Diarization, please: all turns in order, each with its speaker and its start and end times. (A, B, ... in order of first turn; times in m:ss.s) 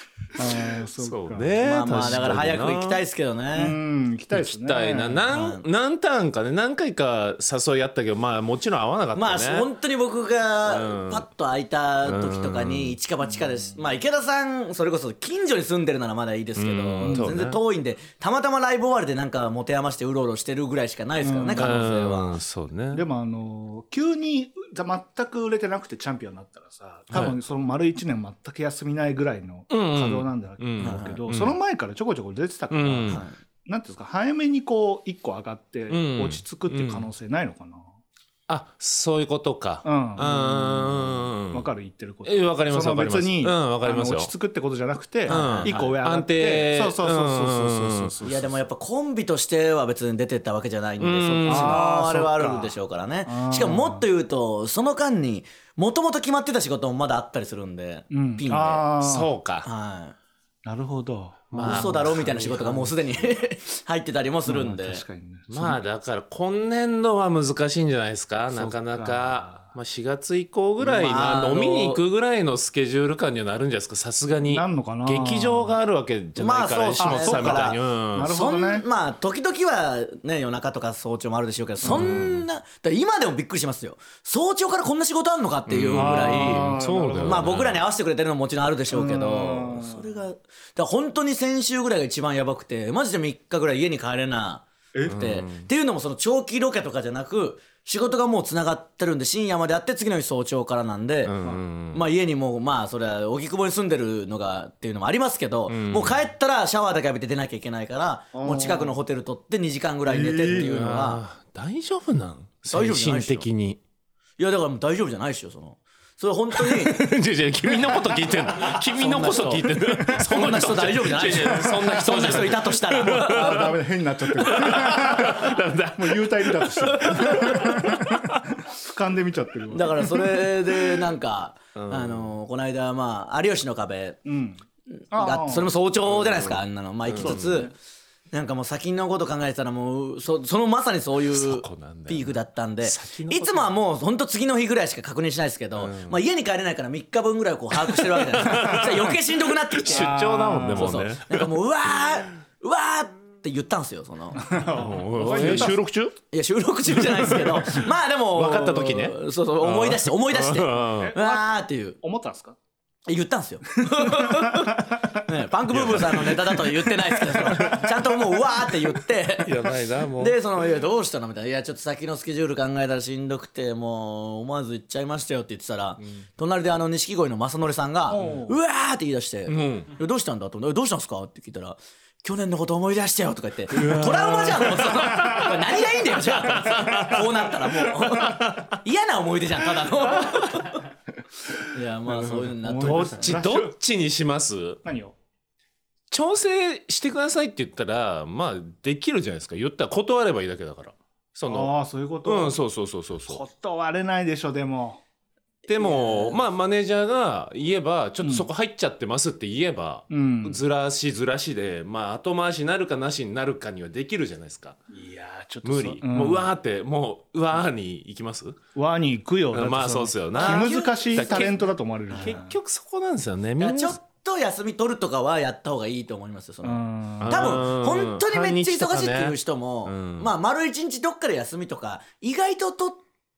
0:00.4-0:02.3 A
0:01.0-0:03.0 B
0:01.6-0:03.8 C
0:03.5-0:05.3 A
0:04.3-0:09.7 B
0:05.3-0:05.6 C
0:09.1-0:22.4 C
0:10.6-0:11.2 B
0:12.0-0:13.0 B
0:16.6-0:17.6 B
0:17.0-0:17.3 A
0:21.2-0:21.7 A
0:21.6-0:23.0 B
0:22.9-0:37.8 A
0:27.1-0:27.4 B
0:29.7-0:31.6 B
0:30.8-0:31.2 C
0:32.7-0:33.2 B
0:33.1-0:33.3 C
0:35.9-0:37.1 B
0:38.5-0:41.7 B
0:39.8-0:48.5 A
0:42.2-0:44.3 B
0:45.3-0:45.9 C
0:45.3-0:48.2 B
0:48.2-0:58.9 C
0:51.0-0:51.8 B
0:51.5-0:52.8 A
0:53.3-0:54.0 A
0:58.1-0:59.3 A
0:59.0-0:59.7 B
0:59.6-1:00.1 C
1:00.6-1:03.0 A
1:01.5-1:02.3 B
1:01.6-1:05.0 C
1:04.4-1:05.8 A
1:05.5-1:18.3 B
1:08.5-1:09.6 A
1:10.8-1:12.0 C
1:14.5-1:15.7 A
1:16.4-1:41.3 C
1:17.0-1:18.8 A
1:21.9-1:22.4 B
1:21.9-1:22.2 A
1:25.7-1:27.8 B
1:25.9-1:27.7 A
1:28.9-1:30.2 A
1:35.1-1:35.6 B
1:41.2-1:42.0 B
1:41.9-1:51.2 C
1:45.7-1:46.2 B
1:48.3-1:48.9 A
1:50.1-1:50.8 A
1:50.5-1:53.8 B
1:52.7-1:53.5 C
1:54.4-1:57.2 C
1:56.5-2:03.7 B
1:58.5-2:03.7 C
2:03.0-2:10.4 A
2:04.3-2:08.4 B
2:09.7-2:14.2 C
2:11.8-2:12.3 B
2:14.2-2:14.6 A
2:15.1-2:17.7 C
2:15.1-2:15.7 A
2:16.1-2:16.6 B
2:17.1-2:17.5 B
2:17.2-2:17.7 A
2:18.3-2:30.1 C
2:21.3-2:23.7 B
2:25.8-2:26.2 B
2:27.9-2:29.1 B
2:28.5-2:28.9 A
2:29.8-2:31.5 B
2:29.9-2:31.0 A
2:30.7-2:34.6 C
2:34.4-2:35.8 A
2:34.7-2:36.1 B
2:35.3-2:35.7 C
2:36.3-2:42.0 C
2:37.0-2:41.1 B
2:41.0-2:41.4 A
2:42.0-2:42.6 A
2:43.1-3:10.8 C
2:43.9-2:45.0 A
2:45.7-2:46.8 B
2:47.3-2:47.8 A
2:49.4-2:50.4 B
2:58.1-2:58.6 A
2:59.5-2:59.9 B
3:03.7-3:08.8 B
3:10.0-3:10.5 B
3:11.7-3:13.4 C
3:12.1-3:13.7 A
3:12.8-3:14.8 B
3:14.8-3:15.2 A
3:16.1-3:21.7 B
3:21.5-3:22.6 A
3:22.2-3:23.4 B
3:23.3-3:25.0 A
3:25.7-3:34.8 B
3:25.8-3:26.1 C
3:28.2-3:28.5 A
3:30.1-3:30.6 A
3:34.9-3:36.5 A
3:35.6-3:38.6 B
3:38.8-3:42.6 A
3:39.5-3:44.0 B
3:40.3-3:41.5 C
3:43.6-3:53.0 C
3:46.6-3:47.6 A
3:47.2-3:50.3 B